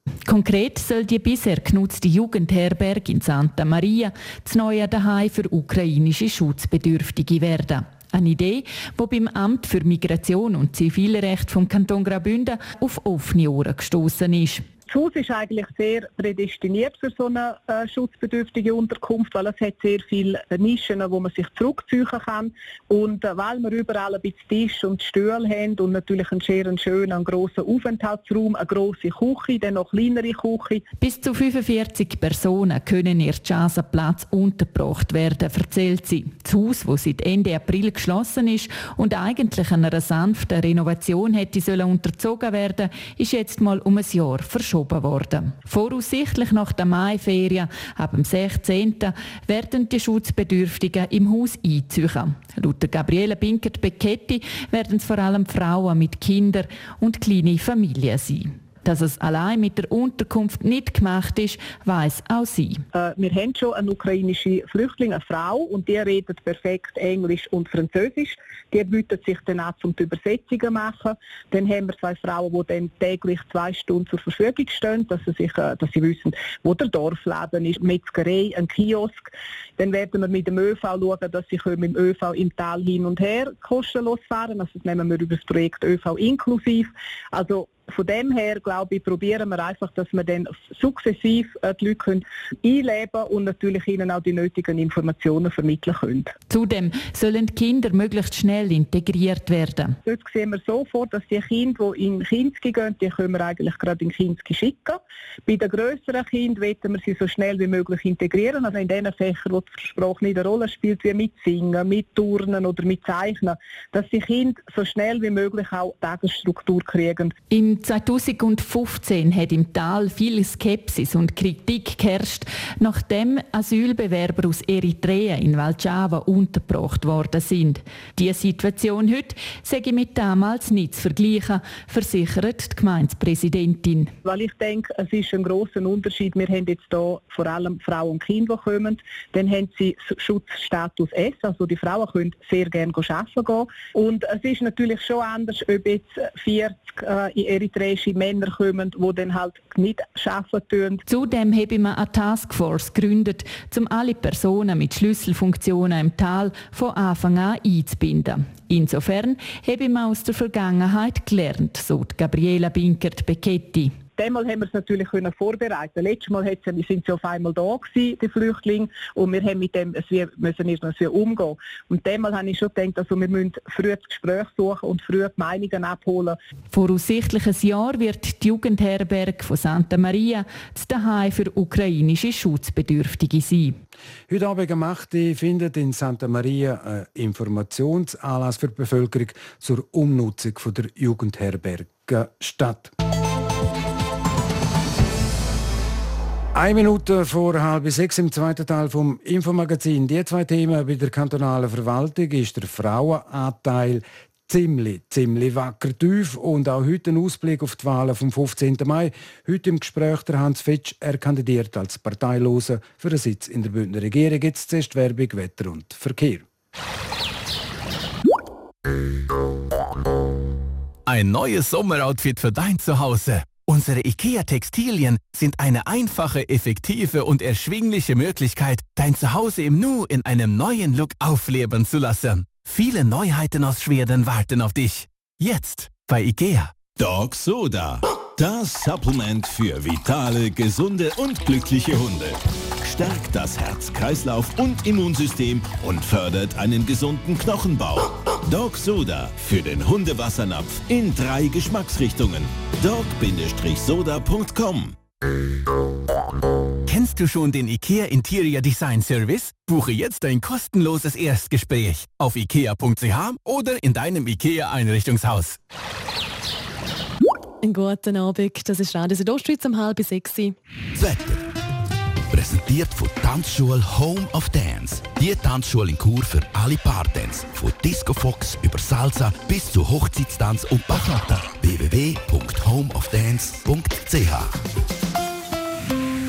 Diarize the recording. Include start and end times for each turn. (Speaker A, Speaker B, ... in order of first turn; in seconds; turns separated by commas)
Speaker A: 0.2-14.6, Speaker B: 14.9-30.8, Speaker A: 31.0-62.8, Speaker B: 62.9-96.3, Speaker A: 96.5-100.0, Speaker B: 100.0-117.3, Speaker A: 117.5-134.1, Speaker B: 134.2-151.0, Speaker A: 151.1-164.0, Speaker B: 164.2-176.4, Speaker A: 176.7-183.8, Speaker C: 184.3-192.9, Speaker C: 196.5-216.4, Speaker D: 221.1-236.8, Speaker E: 236.9-255.0, Speaker D: 256.8-265.6, Speaker F: 267.6-270.5, Speaker G: 270.9-271.5, Speaker G: 272.3-284.6